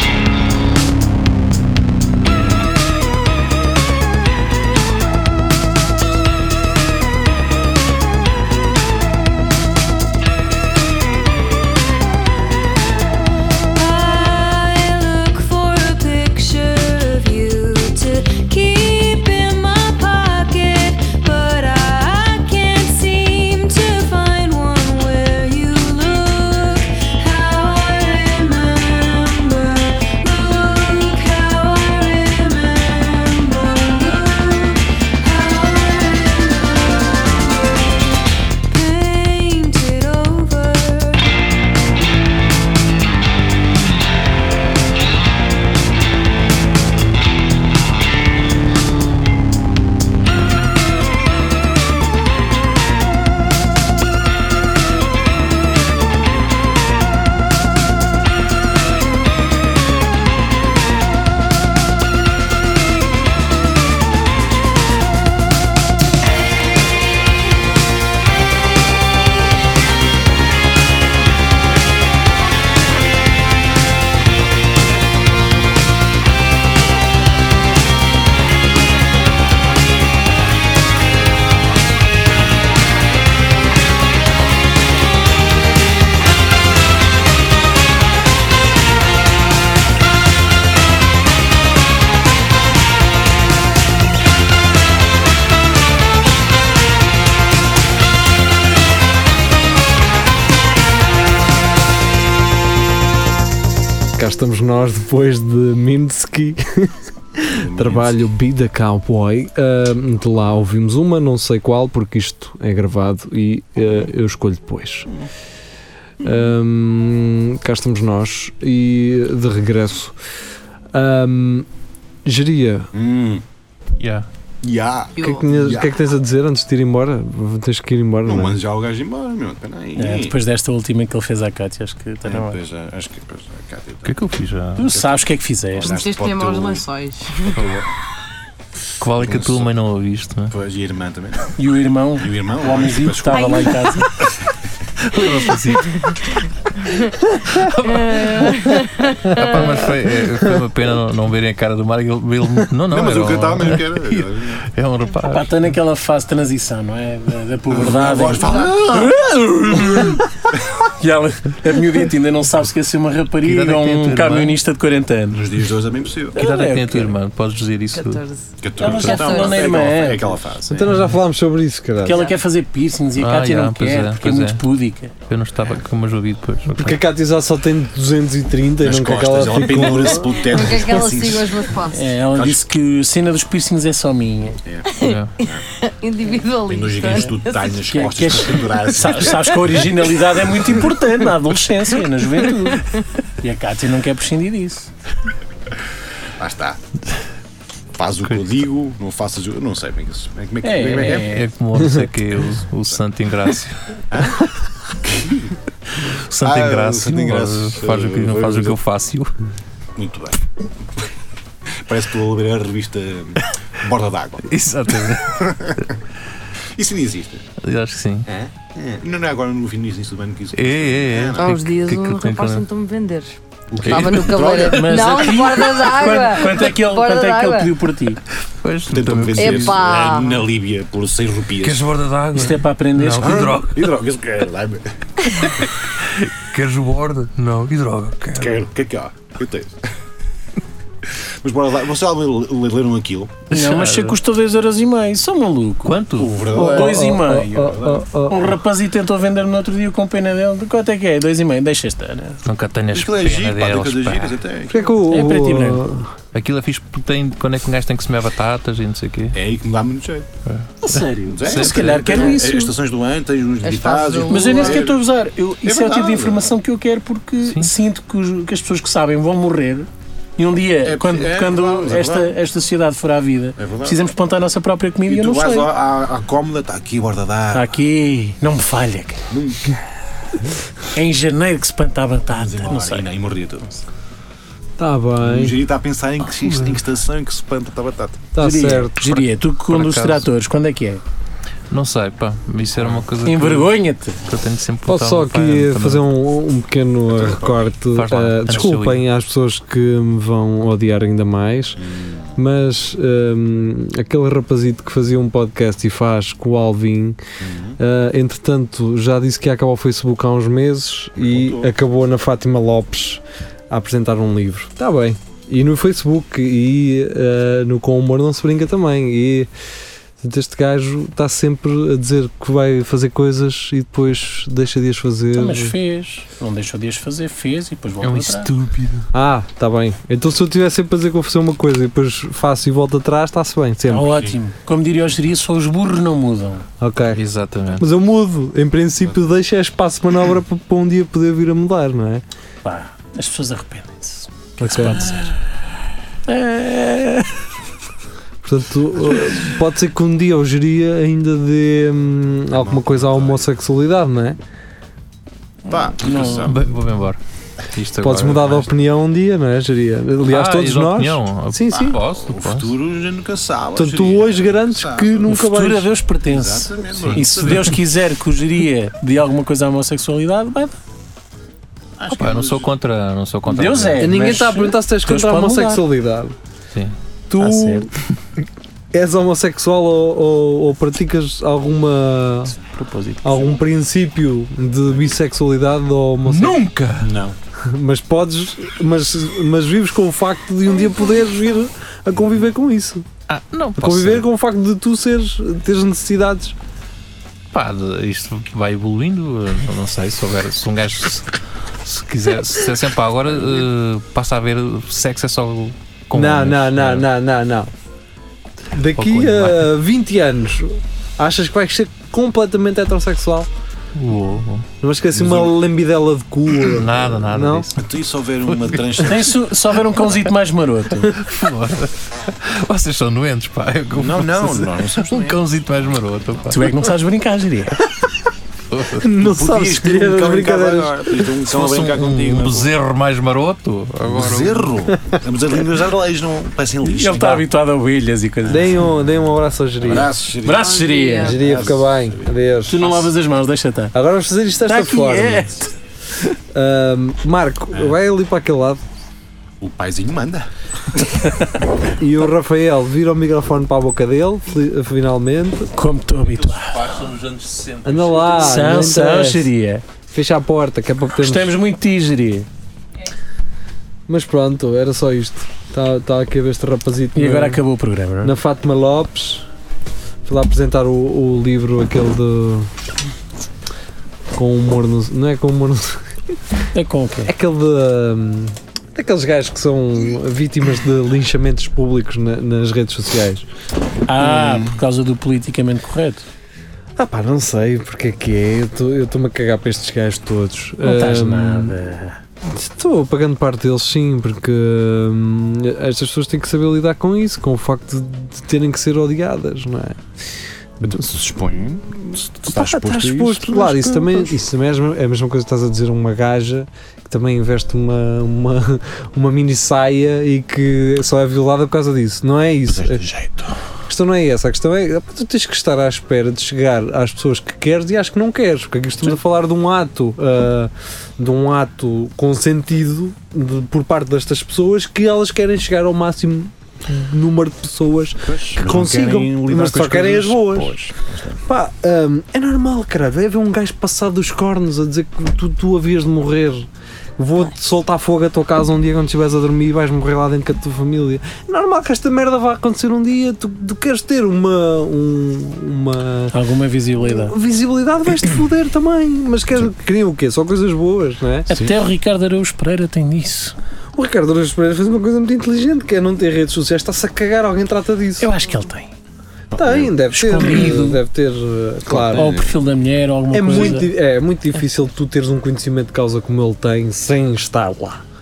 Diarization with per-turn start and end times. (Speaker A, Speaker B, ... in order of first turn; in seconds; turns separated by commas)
Speaker A: 13.8-41.3, Speaker B: 104.2-115.1, Speaker C: 107.5-108.1, Speaker B: 116.2-120.2, Speaker B: 120.9-121.7, Speaker B: 122.2-122.9, Speaker C: 123.0-123.4, Speaker D: 124.0-124.3, Speaker C: 124.6-125.9, Speaker A: 125.2-125.4, Speaker B: 125.2-128.6, Speaker C: 128.2-130.4, Speaker E: 130.0-132.6, Speaker C: 132.2-134.1, Speaker D: 134.1-134.9, Speaker E: 134.8-136.0, Speaker C: 134.9-135.2, Speaker C: 135.8-136.9, Speaker A: 135.8-137.6, Speaker C: 137.5-137.8, Speaker D: 139.0-140.6, Speaker C: 139.2-139.7, Speaker C: 140.5-141.5, Speaker E: 141.6-144.2, Speaker C: 142.2-143.7, Speaker A: 143.3-144.1, Speaker D: 145.0-146.4, Speaker D: 147.5-155.7, Speaker A: 148.1-149.4, Speaker C: 152.9-154.7, Speaker E: 155.3-160.3, Speaker C: 157.7-159.2, Speaker E: 161.0-165.5, Speaker D: 163.4-164.6, Speaker C: 165.3-166.4, Speaker E: 166.3-167.2, Speaker D: 166.4-168.2, Speaker A: 167.9-168.5, Speaker C: 168.6-170.9, Speaker E: 168.8-170.4, Speaker A: 169.0-169.6, Speaker B: 170.7-172.2, Speaker D: 170.8-171.1, Speaker E: 172.0-175.1, Speaker A: 172.1-172.4, Speaker D: 173.2-174.6, Speaker D: 175.3-177.0, Speaker B: 176.7-180.4, Speaker C: 178.8-181.6, Speaker A: 180.4-182.1, Speaker E: 181.9-184.6, Speaker C: 182.3-182.6, Speaker C: 184.7-185.6, Speaker A: 184.9-188.0, Speaker D: 185.0-185.3, Speaker C: 186.6-189.8, Speaker E: 187.9-194.9, Speaker C: 196.4-196.8, Speaker C: 197.9-201.4, Speaker E: 200.6-201.5, Speaker D: 201.1-203.8, Speaker C: 204.1-204.4, Speaker C: 205.0-205.5, Speaker D: 206.1-209.3, Speaker C: 206.4-208.8, Speaker C: 210.0-210.4, Speaker C: 211.8-214.5, Speaker D: 214.5-215.8, Speaker C: 215.3-215.9, Speaker C: 216.8-217.4, Speaker D: 217.6-218.3, Speaker C: 218.3-221.5, Speaker D: 220.6-222.7, Speaker A: 221.4-223.4, Speaker C: 223.7-225.3, Speaker D: 223.8-224.4, Speaker A: 223.9-227.7, Speaker E: 224.6-228.2, Speaker D: 228.6-229.9, Speaker C: 228.9-231.9, Speaker A: 229.4-230.4, Speaker D: 231.6-233.9, Speaker E: 232.3-233.5, Speaker C: 233.2-234.9, Speaker D: 235.4-238.6, Speaker C: 238.4-239.8, Speaker C: 241.4-243.4, Speaker D: 243.5-244.2, Speaker E: 243.5-246.0, Speaker D: 245.8-246.5, Speaker C: 246.2-248.0, Speaker B: 246.5-248.6, Speaker E: 246.5-247.7, Speaker E: 248.3-252.4, Speaker D: 252.4-254.4, Speaker C: 252.9-254.8, Speaker B: 254.7-256.1, Speaker E: 255.1-255.8, Speaker D: 256.3-259.4, Speaker C: 259.3-260.3, Speaker D: 260.5-262.1, Speaker E: 260.8-262.8, Speaker C: 261.3-265.0, Speaker A: 263.6-264.8, Speaker E: 264.3-275.7, Speaker C: 265.6-266.5, Speaker D: 267.4-267.7, Speaker C: 270.8-272.3, Speaker C: 273.6-274.0, Speaker C: 275.1-277.7, Speaker E: 277.5-279.2, Speaker C: 279.3-279.8, Speaker E: 280.9-283.1, Speaker C: 282.3-283.7, Speaker B: 284.8-285.6, Speaker C: 285.2-288.3, Speaker D: 286.4-286.7, Speaker B: 288.3-289.2, Speaker E: 288.4-291.0, Speaker D: 289.7-290.3, Speaker D: 291.7-293.7, Speaker E: 293.2-294.2, Speaker D: 294.2-296.1, Speaker B: 294.9-301.8, Speaker C: 297.1-297.6, Speaker D: 297.9-299.0, Speaker C: 301.8-302.3, Speaker B: 302.4-307.2, Speaker C: 307.4-307.8, Speaker B: 307.8-319.5, Speaker C: 311.2-311.7, Speaker B: 320.2-325.8, Speaker E: 325.4-328.5, Speaker D: 328.0-329.1, Speaker B: 329.1-334.1, Speaker E: 333.9-336.7, Speaker B: 336.8-337.2, Speaker D: 337.1-337.9, Speaker B: 337.8-342.2, Speaker E: 342.6-345.4, Speaker B: 344.6-345.1, Speaker E: 346.3-347.4, Speaker B: 348.4-354.4, Speaker C: 352.5-353.5, Speaker C: 355.7-356.7, Speaker E: 356.0-356.5, Speaker D: 356.4-357.2, Speaker D: 357.7-358.7, Speaker B: 358.0-362.0, Speaker D: 360.3-362.7, Speaker C: 361.8-365.1, Speaker B: 363.8-365.9, Speaker E: 365.3-370.8, Speaker C: 366.2-367.8, Speaker D: 366.9-367.8, Speaker C: 372.0-372.7, Speaker D: 372.1-374.1, Speaker E: 373.5-375.8, Speaker B: 374.0-376.4, Speaker B: 377.3-377.9, Speaker E: 377.4-377.9, Speaker B: 378.9-382.6, Speaker E: 382.6-383.6, Speaker B: 383.2-386.6, Speaker D: 386.3-387.1, Speaker C: 387.0-387.4, Speaker B: 387.6-393.1, Speaker D: 393.3-394.3, Speaker B: 393.8-396.6, Speaker D: 397.5-407.1, Speaker B: 406.1-407.7, Speaker B: 408.7-413.5, Speaker D: 409.0-409.8, Speaker D: 414.0-414.7, Speaker B: 414.8-417.7, Speaker C: 415.1-415.5, Speaker D: 416.7-417.9, Speaker C: 417.8-419.4, Speaker D: 418.5-418.8, Speaker E: 419.0-421.1, Speaker D: 421.0-426.8, Speaker C: 423.9-425.4, Speaker E: 426.5-427.8, Speaker D: 428.7-429.0, Speaker B: 429.0-431.2, Speaker C: 429.2-432.7, Speaker D: 431.4-434.8, Speaker C: 434.0-437.4, Speaker E: 436.8-438.8, Speaker B: 438.5-440.1, Speaker C: 439.8-442.3, Speaker E: 440.4-441.5, Speaker A: 440.6-441.4, Speaker B: 441.2-442.8, Speaker E: 442.7-443.9, Speaker B: 443.9-445.6, Speaker E: 444.7-445.7, Speaker B: 446.5-448.8, Speaker C: 449.6-451.3, Speaker E: 451.3-451.6, Speaker B: 452.0-455.7, Speaker E: 455.8-457.0, Speaker D: 456.2-458.9, Speaker B: 457.9-459.5, Speaker E: 458.4-459.8, Speaker B: 460.1-461.5, Speaker E: 461.2-462.5, Speaker B: 464.1-467.6, Speaker E: 467.1-468.3, Speaker B: 468.2-469.5, Speaker B: 470.2-472.7, Speaker B: 474.3-476.1, Speaker E: 476.7-477.3, Speaker B: 477.2-483.5, Speaker E: 484.1-486.2, Speaker C: 484.3-484.8, Speaker B: 487.0-491.8, Speaker E: 490.8-492.2, Speaker B: 492.4-500.0, Speaker C: 500.8-504.2, Speaker B: 502.5-513.1, Speaker C: 512.7-513.6, Speaker B: 513.9-530.8, Speaker C: 528.3-531.4, Speaker B: 531.5-546.4, Speaker E: 546.3-547.4, Speaker B: 547.0-551.5, Speaker E: 551.5-553.5, Speaker B: 554.0-558.3, Speaker E: 558.2-558.9, Speaker C: 559.5-559.9, Speaker B: 559.6-562.3, Speaker E: 560.1-561.0, Speaker C: 561.9-562.5, Speaker E: 562.1-563.9, Speaker B: 563.3-568.0